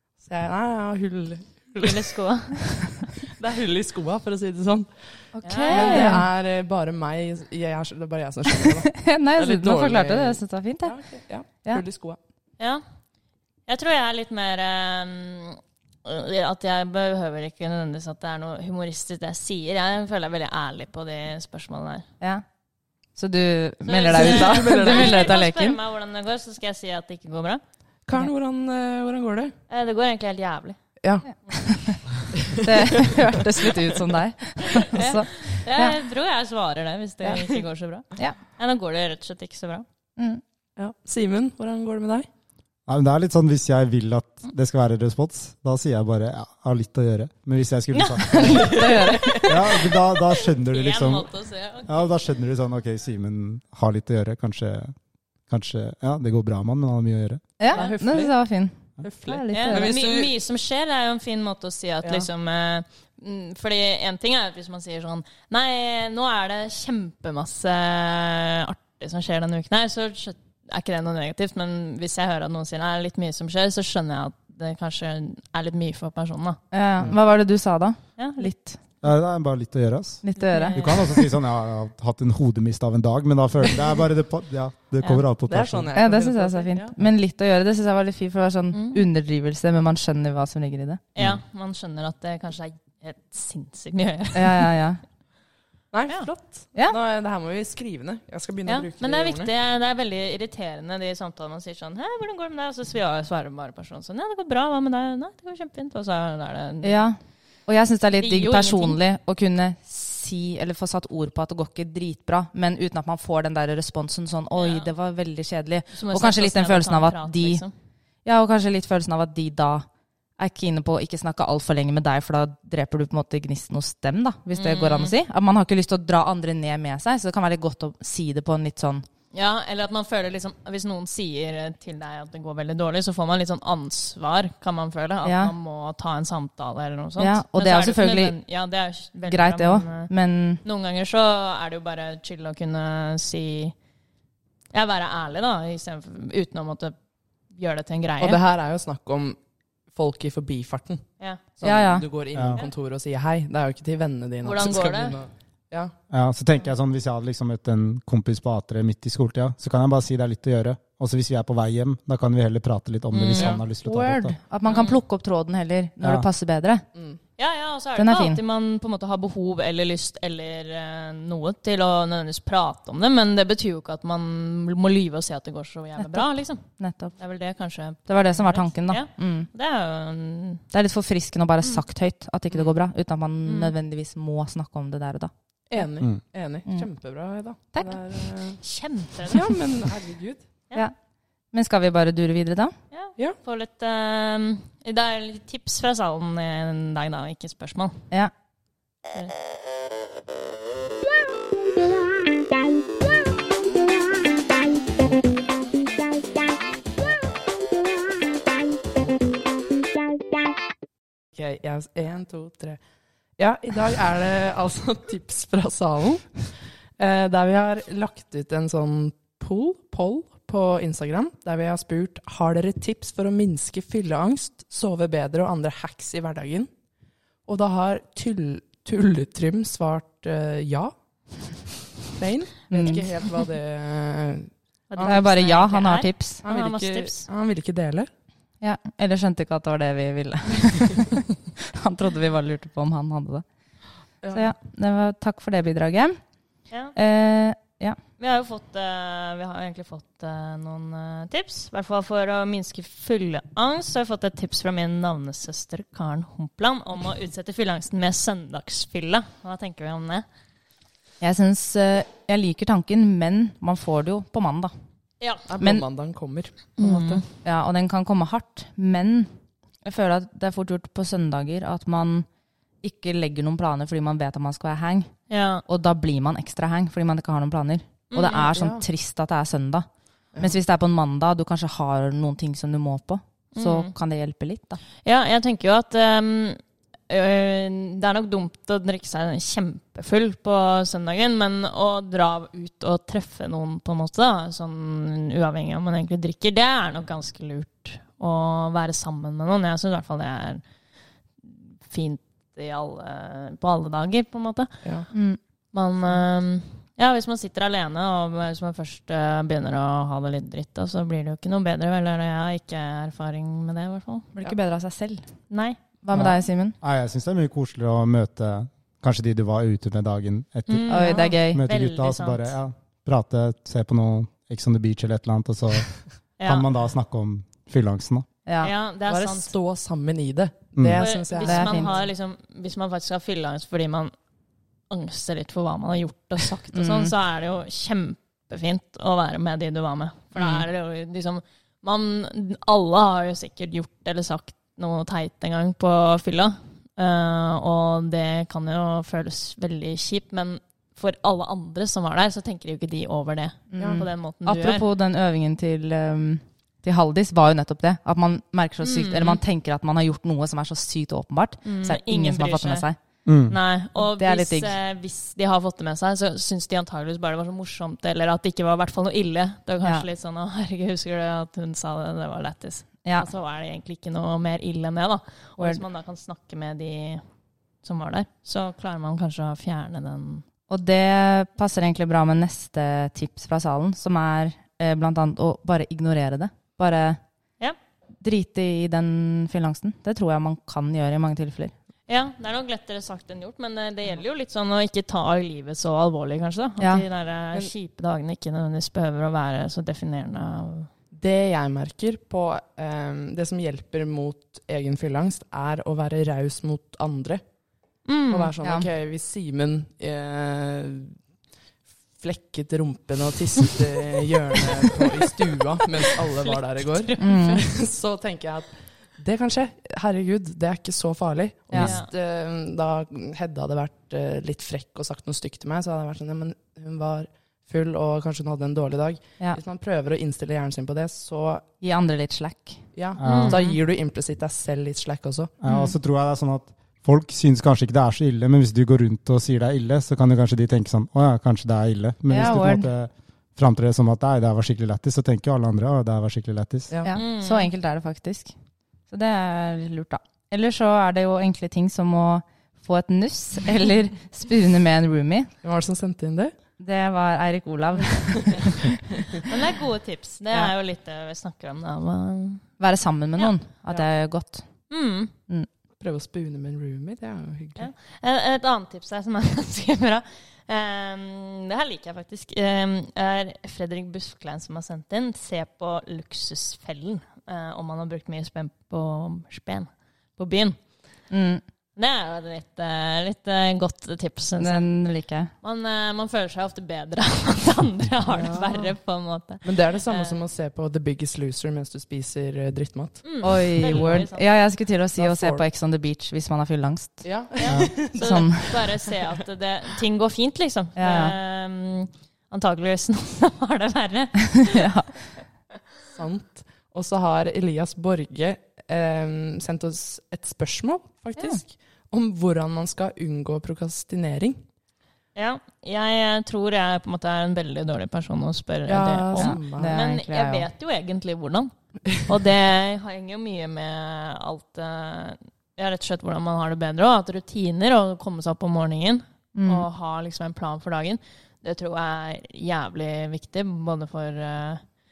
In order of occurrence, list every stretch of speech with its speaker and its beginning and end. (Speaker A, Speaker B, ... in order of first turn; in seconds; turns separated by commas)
Speaker A: 0.2-2.1, Speaker B: 1.8-2.8, Speaker A: 3.2-5.0, Speaker C: 5.3-6.2, Speaker B: 5.4-6.2, Speaker A: 5.7-12.2, Speaker C: 8.9-11.0, Speaker B: 13.7-22.1, Speaker C: 23.1-25.8, Speaker B: 23.9-27.6, Speaker A: 24.1-25.3, Speaker A: 28.1-29.6, Speaker B: 29.7-30.8, Speaker C: 31.3-32.0, Speaker A: 32.5-33.2, Speaker C: 32.6-36.0, Speaker B: 34.7-39.9, Speaker A: 40.8-42.3, Speaker D: 42.9-48.9, Speaker B: 47.9-52.1, Speaker C: 48.4-49.4, Speaker A: 48.7-49.5, Speaker D: 49.4-51.3, Speaker D: 51.9-55.0, Speaker D: 55.5-57.4, Speaker C: 57.6-60.0, Speaker A: 57.7-58.3, Speaker A: 59.0-60.4, Speaker B: 59.5-76.6, Speaker A: 62.0-62.3, Speaker C: 76.7-78.8, Speaker B: 78.2-78.5, Speaker D: 79.0-85.9, Speaker C: 80.2-80.8, Speaker B: 80.4-81.3, Speaker A: 85.5-86.9, Speaker C: 86.0-91.0, Speaker B: 88.7-89.0, Speaker B: 91.2-94.7, Speaker D: 91.2-91.4, Speaker C: 94.3-95.0, Speaker A: 95.9-99.5, Speaker B: 98.7-107.1, Speaker C: 106.8-117.6, Speaker B: 108.2-109.0, Speaker B: 114.5-114.9, Speaker B: 115.9-117.7, Speaker C: 118.2-119.9, Speaker C: 120.4-129.1, Speaker B: 124.5-125.2, Speaker B: 129.3-140.1, Speaker C: 135.2-135.5, Speaker C: 137.2-138.4, Speaker C: 139.3-140.6, Speaker B: 140.6-143.8, Speaker B: 144.7-147.0, Speaker B: 147.5-148.4, Speaker A: 148.2-149.4, Speaker A: 149.9-155.9, Speaker C: 151.6-152.1, Speaker B: 154.4-155.2, Speaker D: 156.1-164.4, Speaker B: 163.1-163.6, Speaker C: 163.8-166.8, Speaker B: 164.7-165.0, Speaker B: 167.4-176.6, Speaker C: 168.0-168.4, Speaker C: 176.0-177.2, Speaker B: 177.2-180.6, Speaker C: 178.1-179.5, Speaker C: 180.7-185.3, Speaker B: 183.4-183.7, Speaker A: 185.7-188.6, Speaker B: 188.6-189.5, Speaker A: 189.3-190.4, Speaker C: 191.5-192.8, Speaker B: 192.9-198.0, Speaker A: 211.3-212.8, Speaker A: 213.4-226.7, Speaker A: 227.5-230.9, Speaker A: 232.1-235.2, Speaker C: 232.7-233.0, Speaker B: 234.9-237.3, Speaker C: 235.0-236.4, Speaker A: 236.4-238.1, Speaker C: 238.6-243.4, Speaker A: 244.2-244.5, Speaker C: 244.3-246.2, Speaker C: 246.9-248.0, Speaker B: 248.2-260.3, Speaker C: 261.2-264.7, Speaker B: 265.2-265.5, Speaker A: 265.5-267.2, Speaker B: 266.8-267.2, Speaker C: 267.4-269.3, Speaker C: 269.9-272.3, Speaker C: 272.8-275.1, Speaker B: 275.3-275.6, Speaker C: 275.7-284.8, Speaker B: 278.1-278.5, Speaker A: 278.4-278.8, Speaker B: 283.6-283.9, Speaker B: 285.0-300.6, Speaker B: 301.4-305.1, Speaker C: 305.1-305.4, Speaker B: 305.7-314.3, Speaker C: 314.4-315.3, Speaker B: 315.5-315.8, Speaker C: 316.0-316.8, Speaker D: 316.1-328.3, Speaker B: 320.7-322.6, Speaker C: 320.9-321.6, Speaker B: 326.4-326.6, Speaker C: 328.5-328.7, Speaker B: 328.6-329.5, Speaker A: 329.1-332.1, Speaker D: 330.8-331.1, Speaker B: 330.9-334.1, Speaker C: 331.4-331.9, Speaker B: 334.9-354.9, Speaker C: 336.7-337.1, Speaker C: 353.7-363.0, Speaker A: 353.8-354.1, Speaker B: 358.8-359.4, Speaker B: 361.6-362.9, Speaker D: 363.3-363.6, Speaker B: 363.5-377.2, Speaker C: 364.0-364.7, Speaker B: 377.8-380.4, Speaker C: 380.7-387.2, Speaker C: 388.2-391.7, Speaker B: 392.1-400.9, Speaker C: 396.8-397.1, Speaker A: 401.1-407.4, Speaker B: 408.1-408.5, Speaker A: 408.3-411.2, Speaker A: 412.2-431.6, Speaker B: 416.3-417.5, Speaker C: 417.2-417.6, Speaker B: 421.7-422.1, Speaker C: 431.8-432.8, Speaker A: 432.9-435.5, Speaker D: 433.2-433.6, Speaker B: 433.2-433.8, Speaker D: 435.6-446.9, Speaker C: 435.7-435.9, Speaker C: 442.3-442.9, Speaker C: 447.1-448.5, Speaker B: 447.1-447.7, Speaker C: 449.1-455.5, Speaker A: 455.6-456.5, Speaker C: 456.8-458.9, Speaker B: 459.4-462.7, Speaker C: 462.8-464.7, Speaker B: 464.9-465.3, Speaker A: 466.0-467.9, Speaker B: 467.8-480.8, Speaker C: 481.3-481.6, Speaker B: 482.0-484.9, Speaker C: 484.6-485.5, Speaker B: 485.6-490.4, Speaker A: 488.3-488.9, Speaker A: 489.6-494.2, Speaker B: 493.2-494.5, Speaker C: 493.4-497.3, Speaker A: 495.2-495.6, Speaker A: 497.2-499.1, Speaker B: 497.6-504.9, Speaker D: 497.7-497.9, Speaker C: 498.2-498.8, Speaker C: 501.0-501.4, Speaker C: 504.6-505.1, Speaker A: 506.1-514.6, Speaker B: 515.4-534.8, Speaker A: 518.9-520.0, Speaker C: 519.4-520.7, Speaker C: 529.6-529.9